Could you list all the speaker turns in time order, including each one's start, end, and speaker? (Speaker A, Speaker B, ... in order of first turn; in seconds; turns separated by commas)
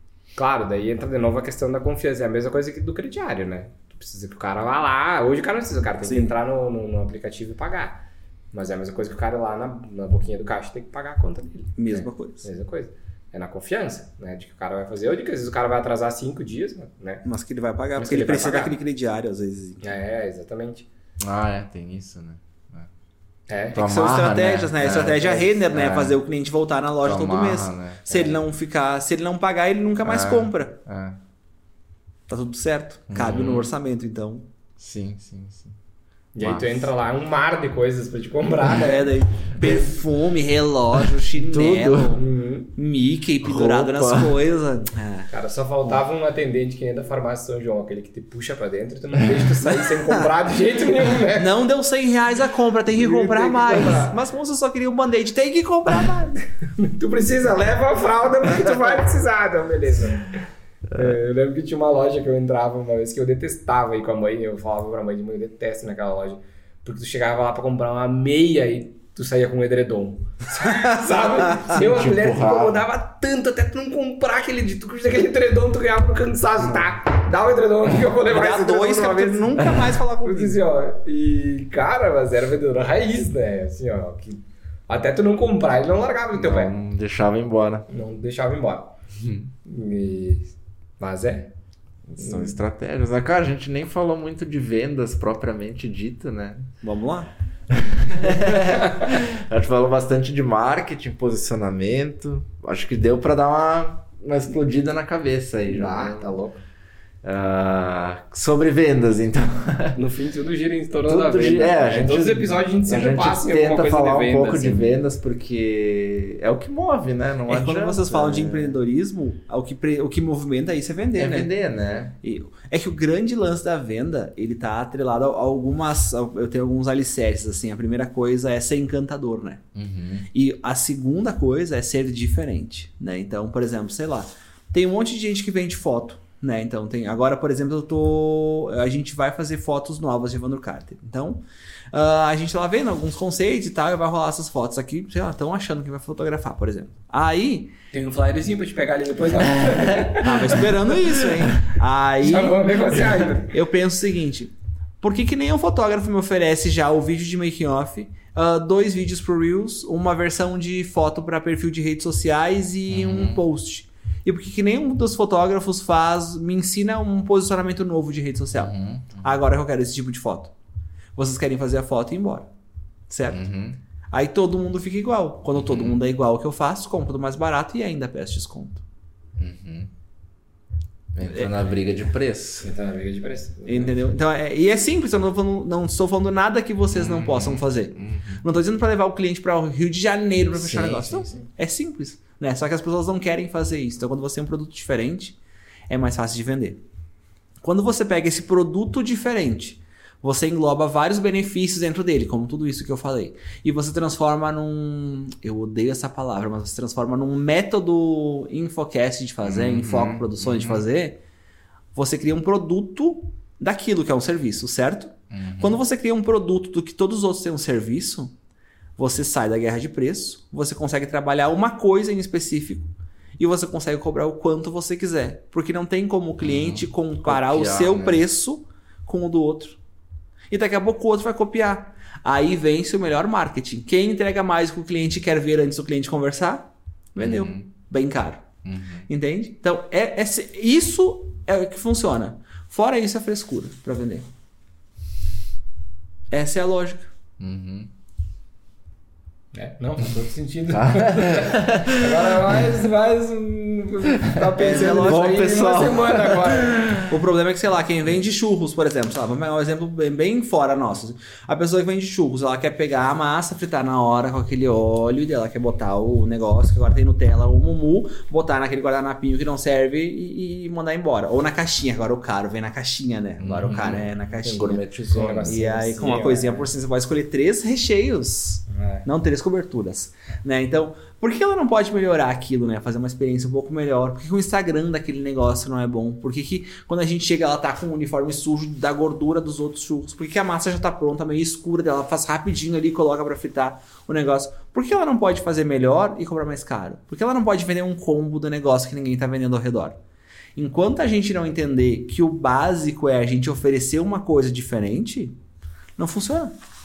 Speaker A: 0.3-17.2, Speaker B: 6.0-6.3, Speaker B: 11.8-12.4, Speaker B: 17.2-19.8, Speaker A: 17.9-18.8, Speaker A: 19.8-20.9, Speaker C: 21.2-22.9, Speaker A: 23.5-23.8, Speaker C: 23.7-26.2, Speaker B: 23.7-30.8, Speaker C: 27.0-28.2, Speaker C: 30.0-31.2, Speaker B: 32.3-34.5, Speaker C: 33.1-33.7, Speaker C: 34.8-35.7, Speaker A: 36.3-39.8, Speaker C: 36.4-36.9, Speaker B: 38.7-42.2, Speaker C: 41.4-42.2, Speaker A: 42.1-42.7, Speaker B: 42.8-45.3, Speaker C: 43.4-44.4, Speaker A: 45.3-51.5, Speaker B: 49.8-50.2, Speaker B: 51.3-56.4, Speaker A: 52.9-54.2, Speaker A: 56.8-60.4, Speaker A: 60.9-86.7, Speaker C: 71.7-72.8, Speaker B: 78.2-80.6, Speaker C: 86.3-87.8, Speaker A: 87.9-88.9, Speaker C: 89.2-89.5, Speaker A: 89.7-91.5, Speaker C: 92.1-96.7, Speaker A: 92.2-92.5, Speaker B: 96.8-97.3, Speaker C: 97.7-106.3, Speaker A: 105.7-106.6, Speaker C: 107.2-110.0, Speaker A: 110.0-114.9, Speaker C: 111.0-118.8, Speaker B: 117.5-121.5, Speaker C: 121.1-122.1, Speaker B: 122.2-129.6, Speaker C: 129.7-130.3, Speaker B: 130.3-141.4, Speaker B: 141.9-147.7, Speaker A: 147.9-151.1, Speaker B: 150.2-170.5, Speaker A: 152.2-153.5, Speaker C: 162.9-163.4, Speaker C: 168.5-169.3, Speaker B: 171.2-172.5, Speaker B: 173.1-173.5, Speaker C: 173.3-173.8, Speaker B: 174.1-178.8, Speaker C: 175.5-176.0, Speaker C: 179.4-179.9, Speaker C: 181.1-182.7, Speaker B: 181.2-181.5, Speaker A: 182.6-183.9, Speaker B: 183.7-195.3, Speaker C: 186.9-188.4, Speaker C: 190.5-191.3, Speaker B: 195.9-196.8, Speaker B: 197.6-211.2, Speaker C: 209.4-210.8, Speaker B: 211.9-218.3, Speaker C: 215.3-215.8, Speaker B: 219.0-229.8, Speaker C: 226.4-228.2, Speaker B: 230.5-238.5, Speaker C: 237.2-237.6, Speaker C: 238.6-239.1, Speaker B: 239.1-244.3, Speaker B: 246.3-247.1, Speaker C: 247.4-247.9, Speaker A: 249.5-257.0, Speaker C: 250.7-252.6, Speaker B: 254.6-255.5, Speaker C: 254.9-257.1, Speaker B: 257.1-274.9, Speaker C: 273.4-275.6, Speaker A: 275.1-276.7, Speaker B: 275.4-299.9, Speaker A: 278.7-279.0, Speaker B: 300.6-305.4, Speaker B: 306.0-306.6